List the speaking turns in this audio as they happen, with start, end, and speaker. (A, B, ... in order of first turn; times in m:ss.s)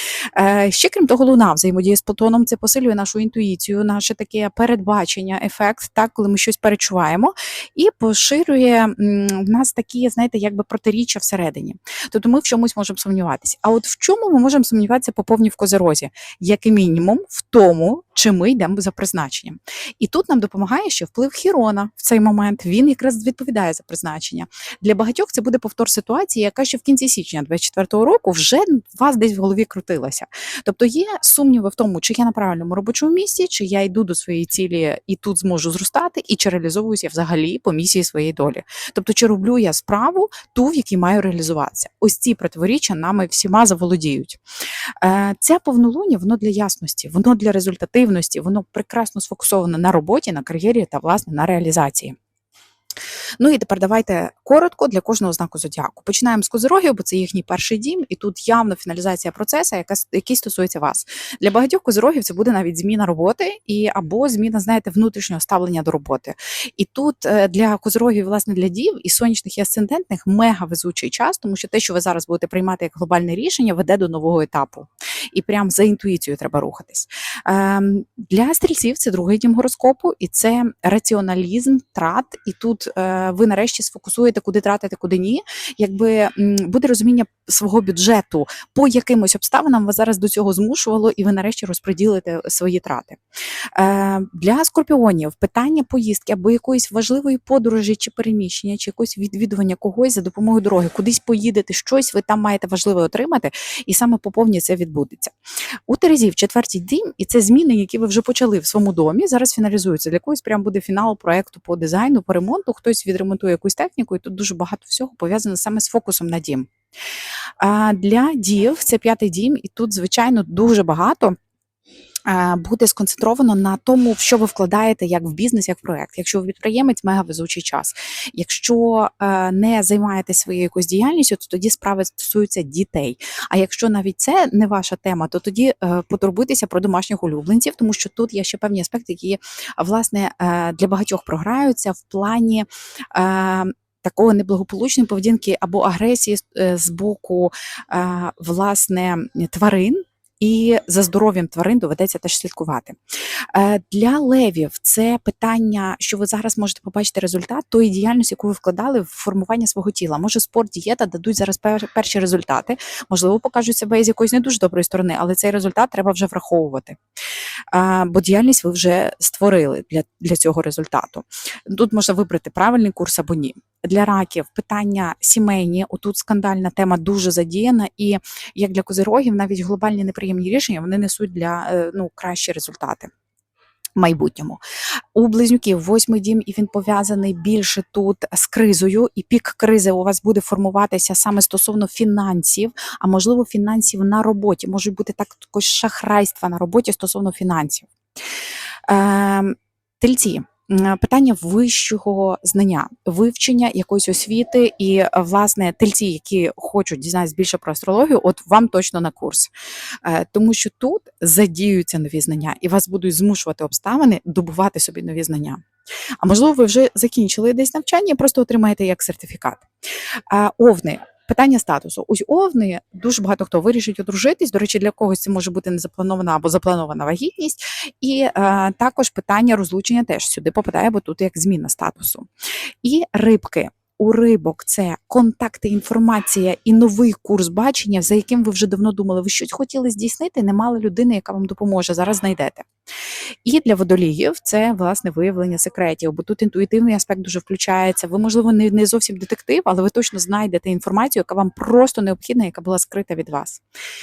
0:00.3-0:44.4 A
0:45.0-0:52.2 A
0:53.4-1:33.2 A
1:33.8-1:45.3 A
1:45.9-1:56.7 A
1:57.6-2:01.4 A
2:02.3-2:33.0 A
2:33.5-2:47.0 A
2:47.7-3:03.1 A
3:04.0-3:04.6 A
3:05.2-3:17.9 A
3:18.9-3:29.5 A
3:30.0-3:35.6 A
3:36.2-3:39.7 A
3:40.3-3:52.3 A
3:52.8-4:02.7 A
4:03.4-4:13.6 A